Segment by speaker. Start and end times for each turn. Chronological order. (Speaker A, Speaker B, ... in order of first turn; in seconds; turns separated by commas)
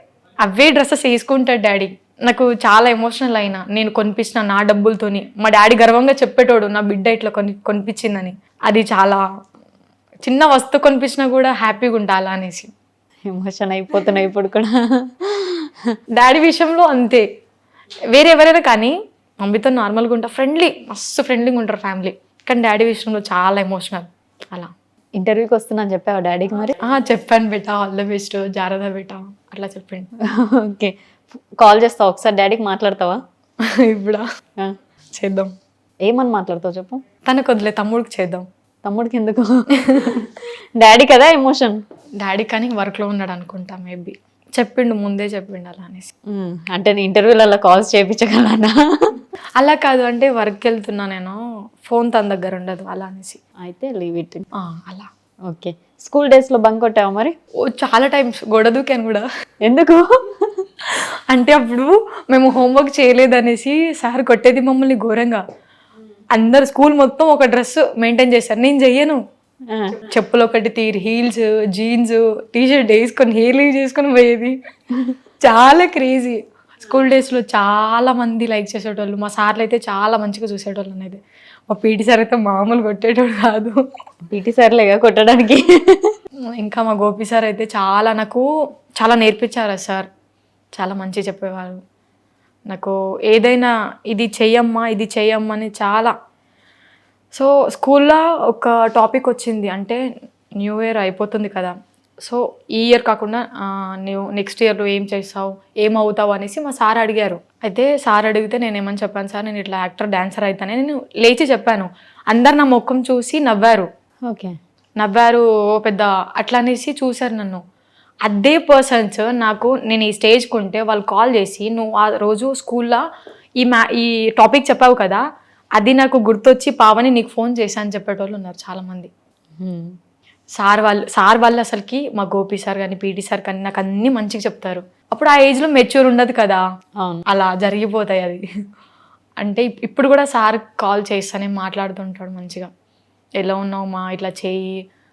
Speaker A: 0.4-9.2, Speaker A: 10.2-12.7, Speaker B: 13.3-15.7, Speaker A: 16.1-17.2, Speaker A: 18.1-24.7, Speaker B: 25.2-26.8, Speaker A: 26.8-30.1, Speaker B: 30.2-30.9, Speaker B: 31.6-33.2, Speaker A: 33.8-34.2, Speaker A: 35.1-35.5, Speaker B: 36.0-37.0, Speaker A: 37.2-38.5, Speaker B: 38.8-41.8, Speaker A: 39.9-40.2, Speaker A: 42.2-46.1, Speaker B: 46.3-49.1, Speaker A: 49.6-53.4, Speaker B: 53.6-54.4, Speaker A: 54.6-55.1, Speaker B: 55.5-57.3, Speaker A: 57.6-59.2, Speaker B: 59.6-60.6, Speaker A: 61.0-65.4, Speaker A: 66.3-69.2, Speaker B: 69.7-70.0, Speaker A: 70.0-74.6, Speaker A: 75.4-83.8, Speaker B: 84.3-86.1, Speaker A: 86.5-88.5, Speaker A: 89.0-90.0, Speaker A: 90.8-91.8, Speaker A: 92.7-96.1, Speaker A: 97.3-100.0, Speaker A: 100.6-113.9, Speaker B: 114.3-114.5, Speaker A: 115.0-117.6, Speaker A: 118.2-123.0, Speaker A: 123.6-125.2, Speaker A: 125.8-129.1, Speaker B: 129.6-129.9, Speaker A: 130.6-136.6, Speaker A: 137.3-138.4, Speaker A: 139.4-142.7, Speaker A: 143.4-144.7